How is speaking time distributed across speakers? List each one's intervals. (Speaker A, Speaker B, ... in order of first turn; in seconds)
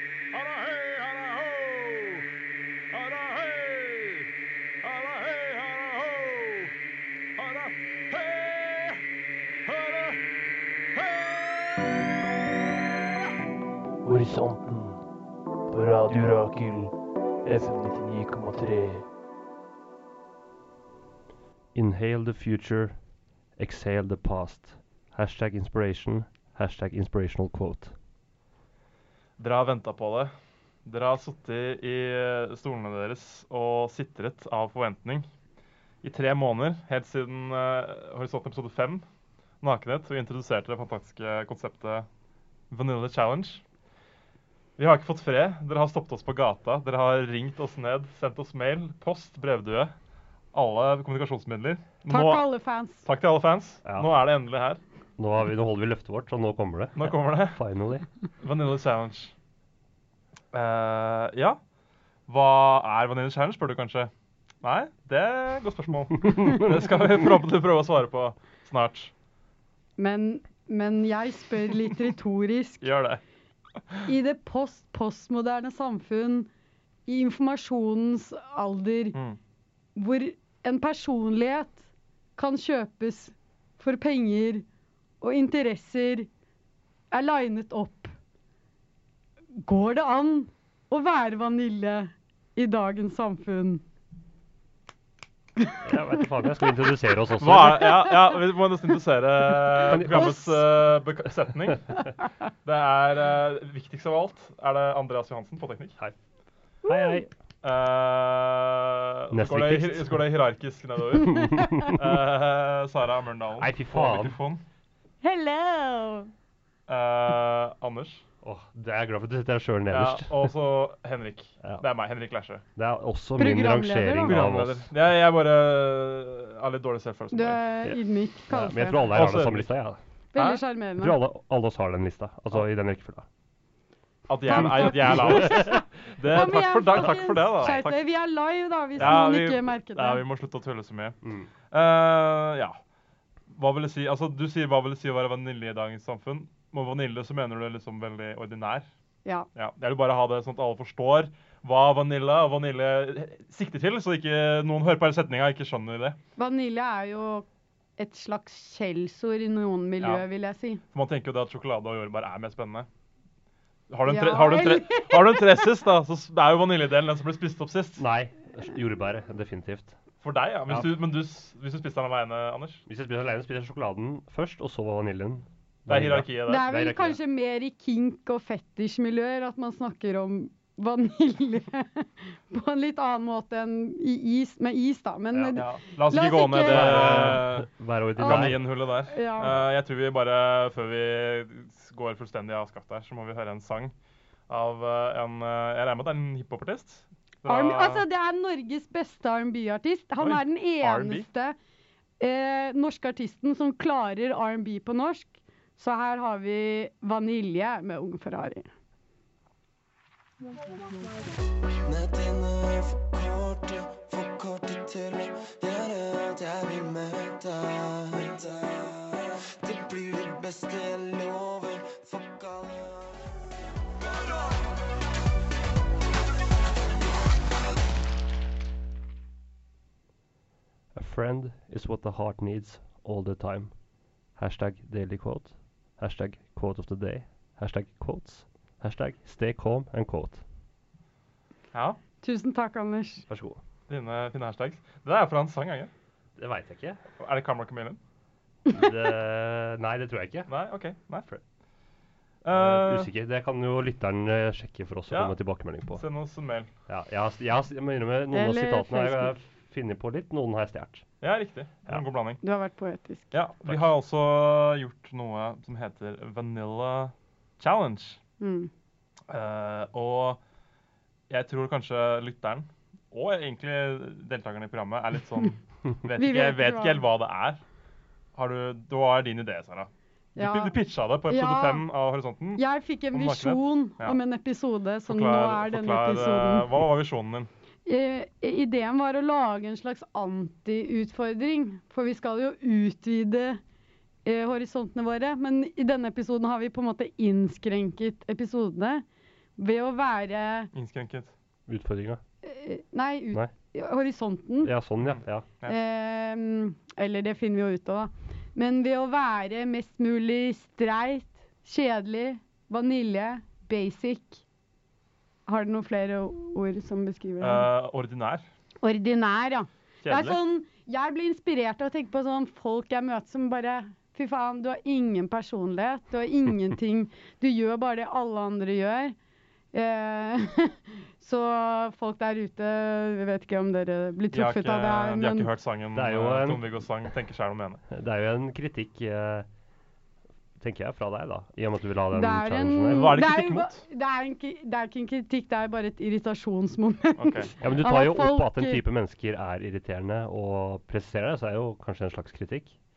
Speaker A: 0.3-2.2, 2.9-4.3, 4.8-6.7, 7.4-9.0, 9.7-10.2, 10.9-11.9, 29.4-30.3, 30.9-35.3, 36.0-39.0, 39.6-42.1, 42.7-43.6, 44.8-49.9, 50.5-52.5, 53.0-54.8, 57.0-57.6, 58.4-59.3, 60.5-61.6, 62.3-64.1, 64.6-69.1, 72.8-73.2, 97.4-101.9, 102.6-106.0, 107.6-114.6, 116.9-118.2, 119.9-122.6, 124.2-127.6, 129.0-129.7, 130.3-130.6, 134.3-138.0, 139.0-141.2, 141.7-142.8, 143.5-148.9, 149.5-156.2, 160.9-162.9, 163.9-168.0, 170.2-172.8, 175.9-176.6, 185.5-193.9, 194.5-198.0, 200.2-201.3, 241.7-242.0, 243.9-245.9, 247.2-248.0, 250.5-251.3, 252.4-253.1, 255.9-256.7, 261.2-262.4, 263.3-268.2, 269.3-270.4, 271.3-277.6, 278.3-284.2, 285.1-287.5, 300.7-301.3, 305.0-305.8, 317.4-318.4, 320.0-320.4, 334.3-337.8, 342.9-343.8, 347.2-347.5
Speaker B: 14.0-15.0, 15.7-16.9, 17.4-19.0
Speaker C: 21.7-23.0, 23.6-27.9, 55.2-58.1, 66.4-66.9, 95.8-98.0, 99.9-100.4, 106.8-107.3, 109.3-110.2, 111.2-111.9, 113.6-114.4, 118.4-120.5, 122.8-124.9, 128.5-130.0, 131.0-133.2, 134.5-135.7, 139.0-139.3, 141.2-141.5, 168.0-169.9, 170.7-170.9, 172.9-177.2, 185.3-185.6, 186.7-188.6, 230.9-233.7, 234.4-240.4, 243.3-243.6, 246.4-247.0, 248.7-250.5, 252.5-256.0, 256.9-261.1, 301.7-302.2, 304.6-305.5, 335.9-336.7, 337.9-339.5, 340.6-343.1, 347.6-352.8
Speaker D: 52.1-53.0, 70.0-72.8, 74.0-76.5, 77.1-79.2, 80.0-81.8, 82.4-84.6, 85.2-86.3, 87.1-88.1, 89.6-93.8, 100.1-100.4, 106.8-107.2, 115.2-116.3, 123.4-124.3, 127.3-129.0, 130.3-131.2, 134.5-140.2, 156.4-157.4, 158.0-160.8, 164.1-165.4, 176.5-187.4, 188.2-189.6, 197.4-201.6, 202.2-208.7, 242.2-243.2, 258.3-259.4, 262.4-263.3, 268.4-268.7, 276.2-277.0, 280.4-280.8, 281.3-281.9, 282.6-286.6, 287.9-293.6, 294.2-299.0, 299.6-300.7, 302.4-304.7, 305.7-314.4, 315.5-317.7, 318.8-329.1, 329.7-335.5, 342.1-348.8
Speaker E: 211.8-224.7